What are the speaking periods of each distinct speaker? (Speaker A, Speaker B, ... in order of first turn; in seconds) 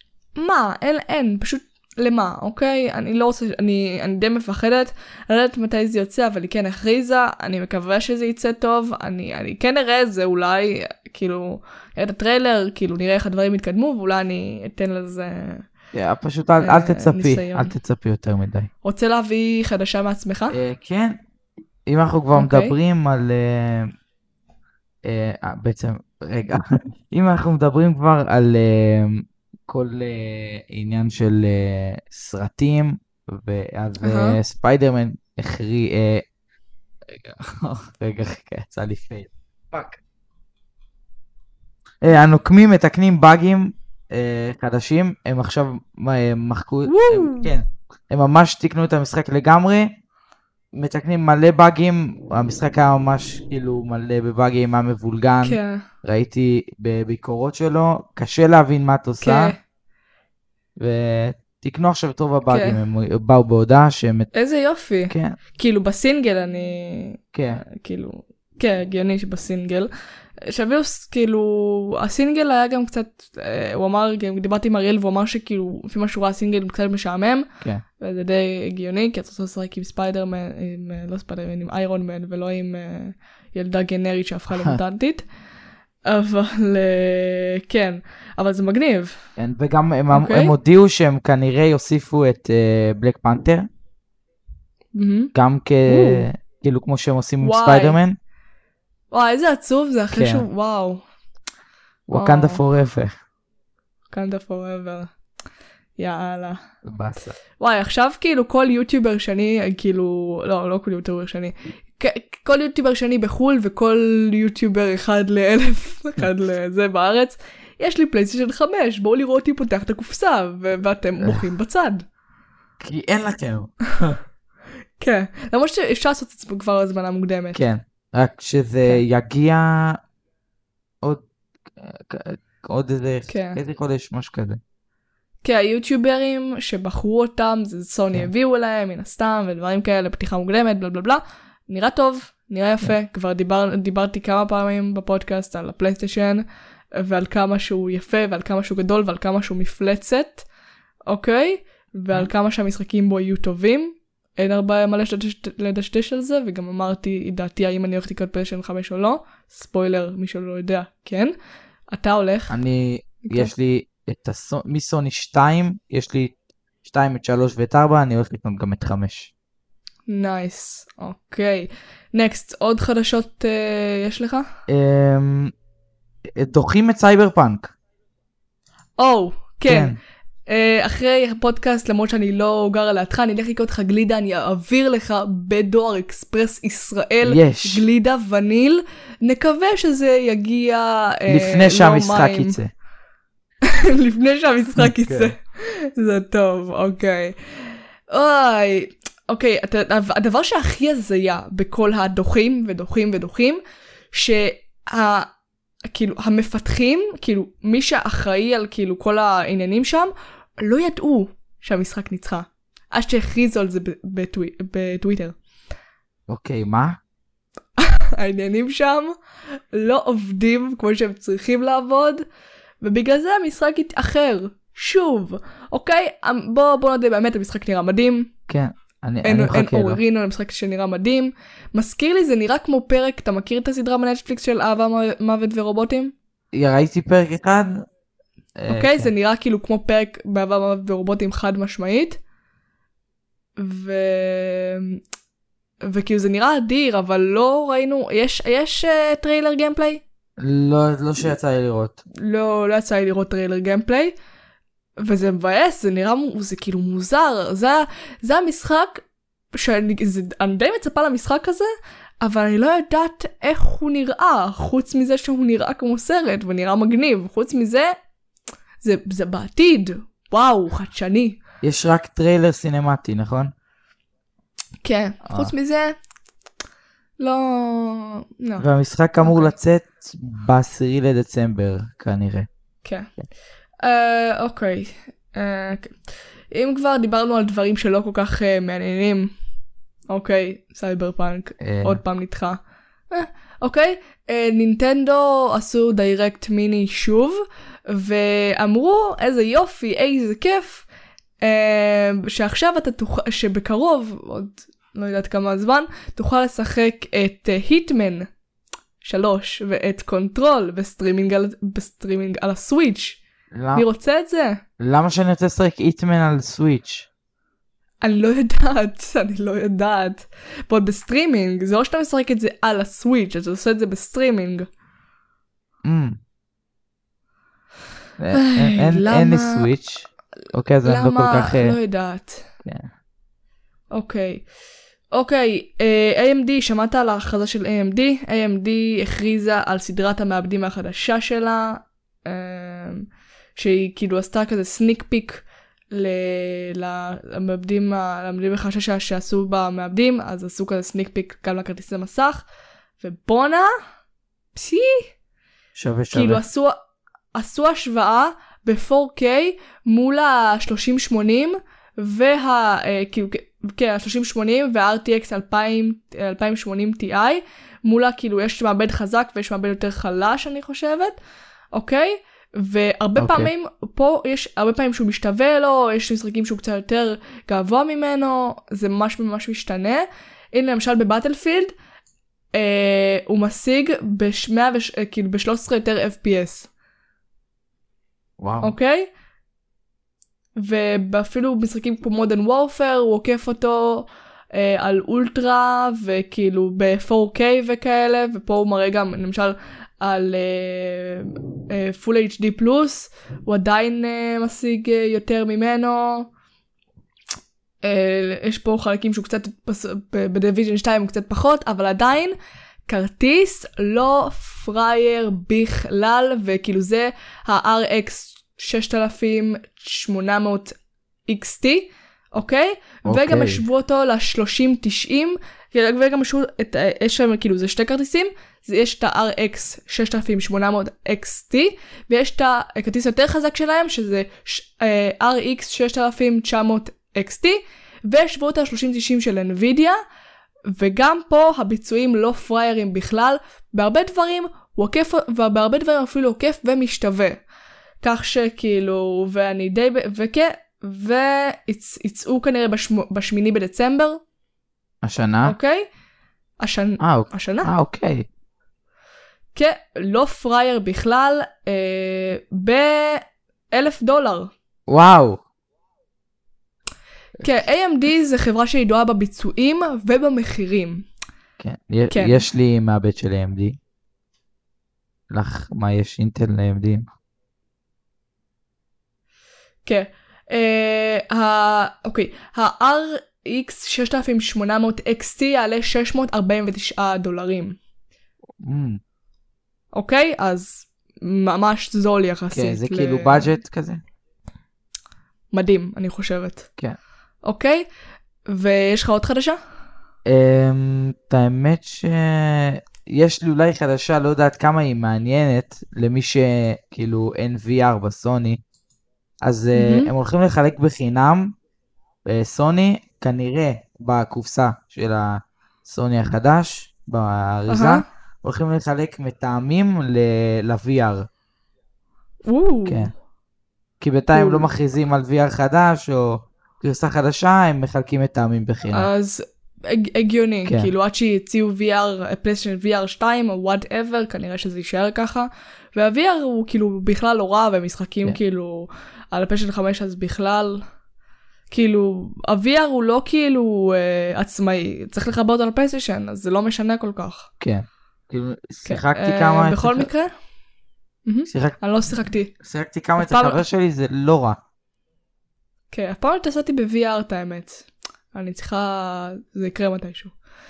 Speaker A: 0.4-15.6, 16.6-17.7, 18.8-20.6, 22.4-22.7, 34.0-34.4, 46.9-47.5, 55.4-55.9, 59.2-59.6, 62.5-62.8, 64.3-69.9, 70.4-77.5, 78.0-85.2, 86.0-89.2, 90.1-90.5, 95.0-95.3, 95.8-96.3, 97.4-98.0, 99.1-101.0, 102.1-102.6, 104.1-105.1, 106.0-106.6, 107.6-122.0, 125.0-127.6, 133.3-133.6, 135.4-150.5, 151.1-161.3, 161.9-162.6, 170.1-174.5, 179.0-179.9, 180.5-192.6, 193.7-203.6, 204.1-205.3, 205.9-215.3, 217.8-219.2, 219.7-222.2, 222.8-228.3, 229.2-236.1, 238.7-242.2, 243.6-245.0, 245.8-250.0, 252.2-254.2, 255.0-261.7, 262.2-267.9, 268.8-271.4, 274.8-276.0, 277.2-278.7, 279.2-279.5, 282.8-283.1, 283.8-286.0, 286.5-289.3, 290.1-300.9, 301.4-308.3, 309.0-313.2, 313.8-314.6, 318.0-324.7, 328.3-329.7, 330.8-332.5, 333.9-334.4, 335.1-352.5, 353.0-353.7, 354.5-355.1, 356.1-356.8, 357.3-371.1, 371.7-381.7, 382.5-386.7, 388.6-389.1, 390.6-406.3, 407.8-412.3, 412.9-420.8, 421.3-440.0, 440.8-447.4, 448.0-454.2, 455.4-455.9, 456.6-457.7, 459.5-464.5, 467.4-471.1, 472.1-472.4, 479.8-487.8, 489.9-493.5, 495.5-496.7, 497.4-497.8, 498.5-499.6, 509.8-510.1, 517.7-518.0, 522.5-523.1, 524.3-524.7, 528.9-540.8, 541.7-547.5, 548.9-550.3, 551.3-552.5, 553.2-553.6, 555.9-560.3
Speaker B: 15.9-18.7, 20.5-21.2, 21.9-23.9, 25.0-36.2, 37.1-40.0, 42.0-50.0, 50.7-59.5, 60.8-64.3, 65.1-65.4, 67.3-67.6, 89.4-93.7, 95.3-98.2, 100.1-100.5, 102.1-103.1, 106.8-107.3, 121.2-121.5, 122.8-124.2, 127.5-130.0, 131.0-134.6, 162.5-169.3, 174.7-175.5, 176.3-177.7, 179.7-180.0, 187.2-187.8, 191.3-192.7, 194.8-195.3, 216.3-217.0, 228.5-230.0, 236.5-237.8, 238.6-239.1, 250.4-252.0, 271.6-273.5, 275.2-275.5, 278.6-282.5, 291.6-292.0, 313.5-313.8, 314.8-317.1, 325.8-326.2, 328.2-331.8, 355.8-356.4, 373.2-373.5, 388.4-388.8, 423.1-423.6, 455.0-455.6, 457.0-458.3, 464.9-465.4, 471.6-473.8, 475.3-477.1, 488.6-489.0, 492.5-494.0, 500.2-508.6, 509.4-511.5, 512.2-521.3, 522.9-523.1, 524.0-529.1, 547.6-550.1, 551.5-551.8, 552.6-554.6